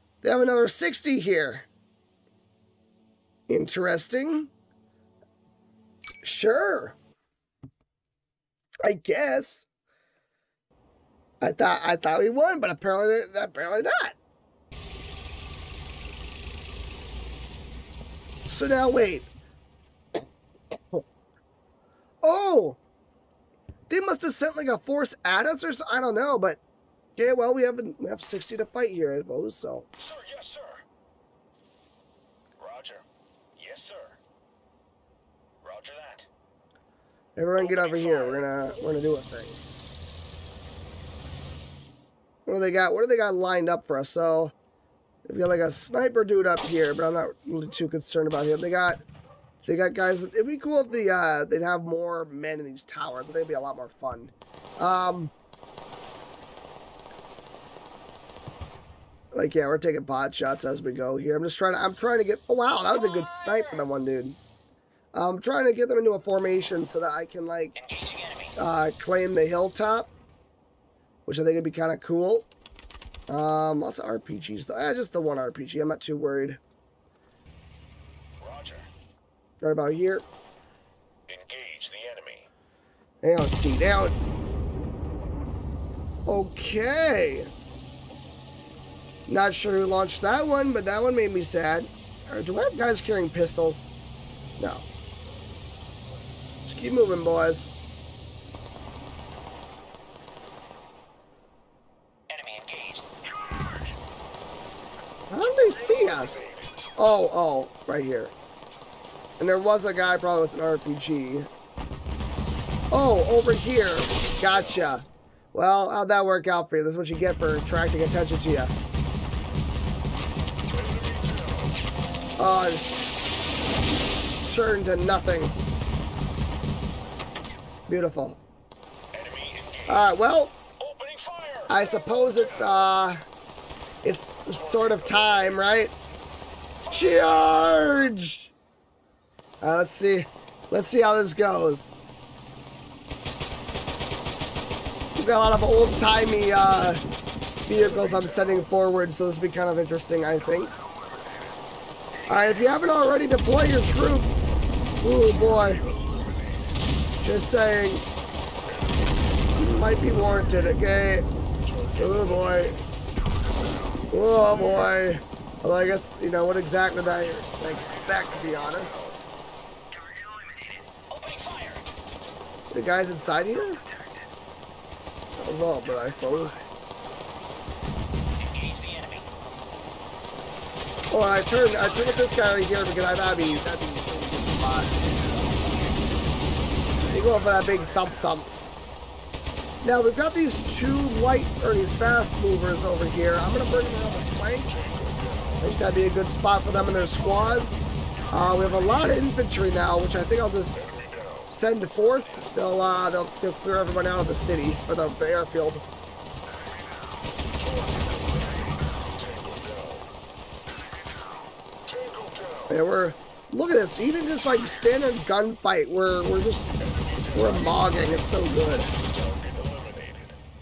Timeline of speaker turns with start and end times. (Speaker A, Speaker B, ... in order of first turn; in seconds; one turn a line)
Speaker A: 0.2-1.7
Speaker A: 3.5-4.5
Speaker A: 6.2-7.0
Speaker A: 8.8-9.7
Speaker A: 11.4-14.2
Speaker A: 18.5-19.3
Speaker A: 22.2-22.8
Speaker A: 23.9-26.6
Speaker A: 27.2-29.9
Speaker B: 30.0-30.9
Speaker B: 32.6-33.0
Speaker B: 33.6-34.2
Speaker B: 35.6-36.3
Speaker A: 37.4-39.6
Speaker B: 37.5-38.4
Speaker A: 42.5-44.5
Speaker A: 45.2-49.0
Speaker A: 49.6-55.3
Speaker A: 59.3-64.4
Speaker B: 63.1-63.5
Speaker A: 65.1-67.8
Speaker B: 67.8-68.5
Speaker A: 68.6-70.1
Speaker A: 71.3-72.5
Speaker A: 73.3-76.6
Speaker B: 78.4-78.9
Speaker A: 79.6-80.3
Speaker B: 81.3-82.5
Speaker A: 83.2-84.2
Speaker A: 86.3-87.5
Speaker A: 89.3-93.9
Speaker A: 94.6-94.9
Speaker A: 96.7-97.8
Speaker B: 102.3-103.1
Speaker A: 105.3-108.3
Speaker B: 105.9-106.5
Speaker A: 109.4-111.5
Speaker A: 112.9-118.7
Speaker B: 120.7-121.7
Speaker A: 122.4-123.1
Speaker A: 124.4-125.5
Speaker A: 127.9-128.4
Speaker B: 129.1-130.0
Speaker A: 129.9-130.6
Speaker B: 130.8-131.8
Speaker A: 131.7-133.2
Speaker A: 134.0-135.9
Speaker A: 136.9-138.5
Speaker A: 139.6-141.9
Speaker A: 145.2-147.0
Speaker A: 147.7-150.7
Speaker A: 152.3-155.8
Speaker A: 157.2-158.1
Speaker A: 159.6-161.3
Speaker B: 161.7-162.7
Speaker A: 162.0-162.8
Speaker A: 164.1-169.1
Speaker B: 171.1-171.9
Speaker A: 172.7-173.8
Speaker A: 175.4-176.7
Speaker B: 178.4-179.3
Speaker A: 181.1-185.9
Speaker A: 187.1-188.5
Speaker A: 189.8-194.8
Speaker B: 194.7-195.5
Speaker A: 195.6-201.0
Speaker B: 201.0-201.5
Speaker A: 201.5-205.8
Speaker B: 207.5-210.1
Speaker B: 211.9-212.7
Speaker A: 212.7-216.8
Speaker B: 217.0-217.7
Speaker A: 217.3-218.9
Speaker B: 219.1-220.4